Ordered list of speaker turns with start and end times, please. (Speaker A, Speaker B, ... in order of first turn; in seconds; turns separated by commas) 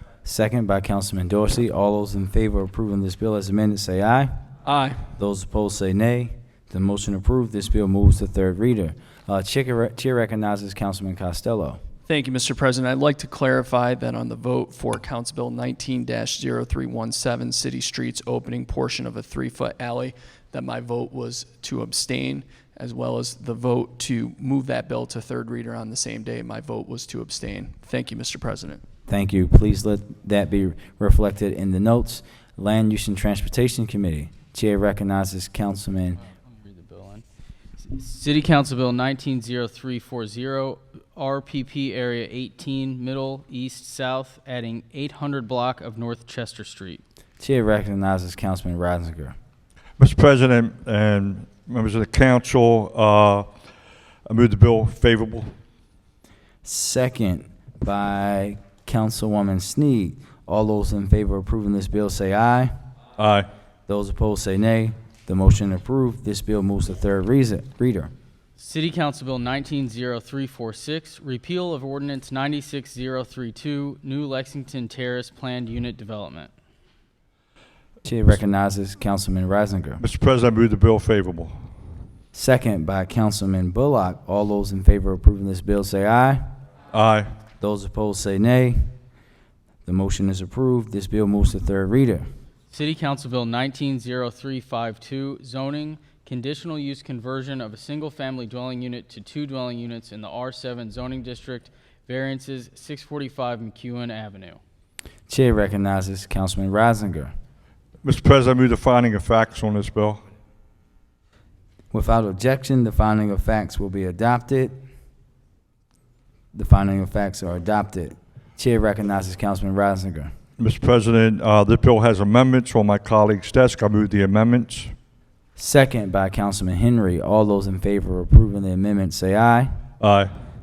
Speaker A: 0.2-4.3, Speaker B: 4.6-5.1, Speaker A: 5.2-11.8, Speaker B: 12.1-28.8, Speaker A: 29.1-36.2, Speaker C: 36.2-37.2, Speaker C: 37.8-47.0, Speaker A: 47.4-49.4, Speaker D: 50.0-53.5, Speaker D: 54.3-55.5, Speaker A: 56.6-62.7, Speaker D: 63.2-63.5, Speaker A: 63.9-68.1, Speaker C: 68.6-76.5, Speaker A: 78.0-80.0, Speaker D: 80.0-81.6, Speaker A: 82.3-86.4, Speaker D: 86.9-87.3, Speaker A: 87.6-88.9, Speaker A: 89.8-92.2, Speaker C: 92.7-104.6, Speaker A: 105.3-107.3, Speaker D: 108.0-110.2, Speaker A: 111.9-114.7, Speaker A: 116.5-120.3, Speaker D: 120.6-124.9, Speaker A: 125.5-129.8, Speaker D: 130.0-130.3